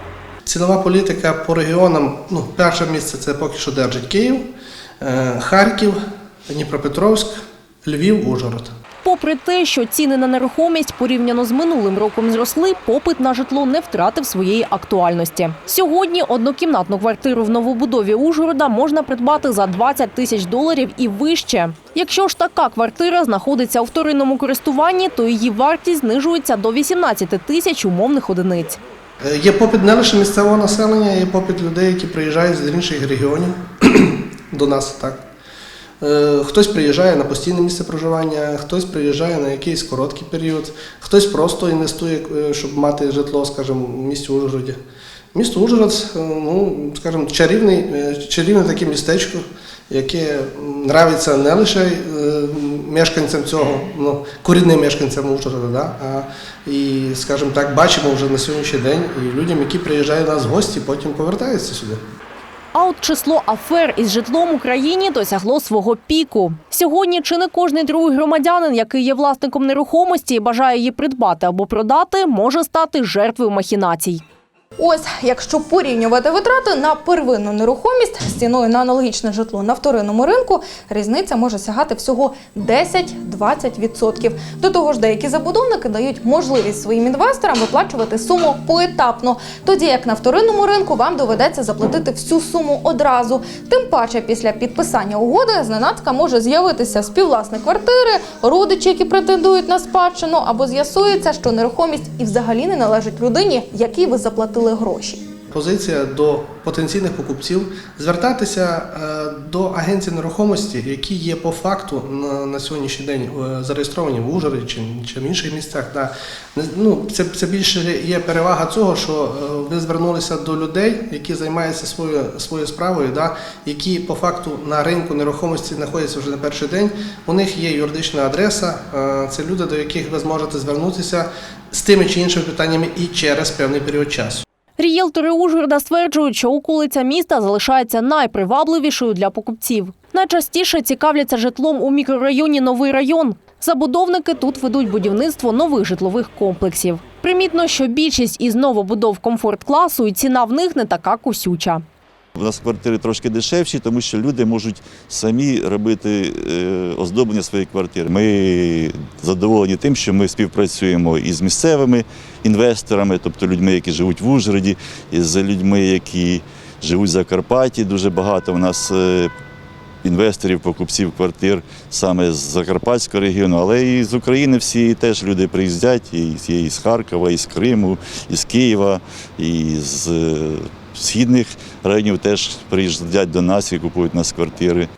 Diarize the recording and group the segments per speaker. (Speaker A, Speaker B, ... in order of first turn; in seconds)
Speaker A: 0.5-4.5, 5.0-8.7, 29.2-35.2, 36.0-44.8, 45.3-62.0, 105.5-134.4
Speaker B: 9.0-28.8, 62.7-74.2, 134.8-151.8
Speaker C: 74.8-105.2
Speaker D: 152.3-169.3, 170.0-184.9